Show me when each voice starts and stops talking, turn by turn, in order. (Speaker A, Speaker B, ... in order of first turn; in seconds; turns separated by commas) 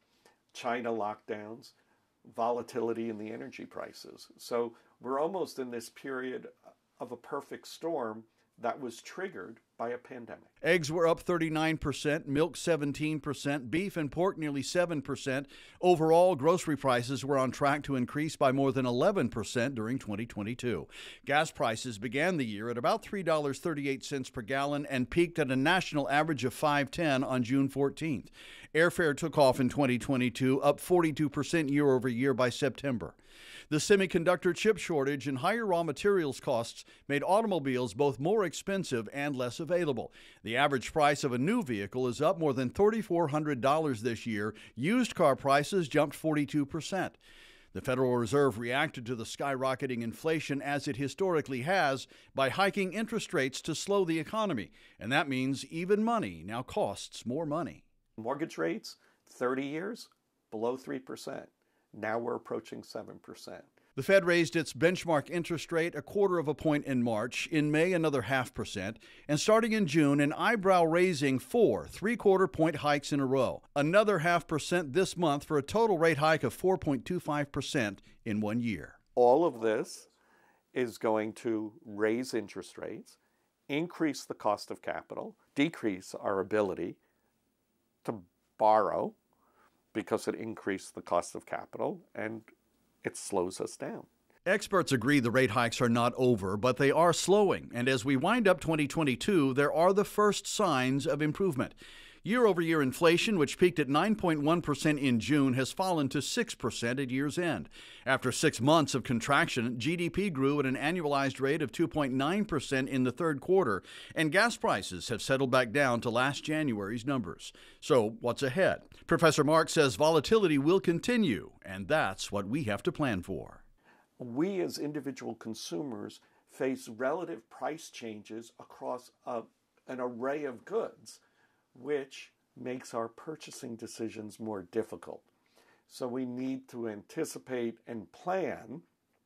Speaker A: 0.5-1.7, Speaker A: 2.2-10.5, Speaker B: 10.6-33.1, Speaker B: 33.7-47.2, Speaker B: 47.7-57.8, Speaker A: 58.2-63.7, Speaker B: 64.0-79.0, Speaker A: 79.2-80.1, Speaker A: 80.7-83.2, Speaker A: 83.7-87.0, Speaker A: 88.0-89.2, Speaker A: 89.9-92.5, Speaker A: 93.0-94.1, Speaker B: 94.5-123.6, Speaker A: 124.2-131.2, Speaker A: 131.7-135.2, Speaker A: 135.9-138.8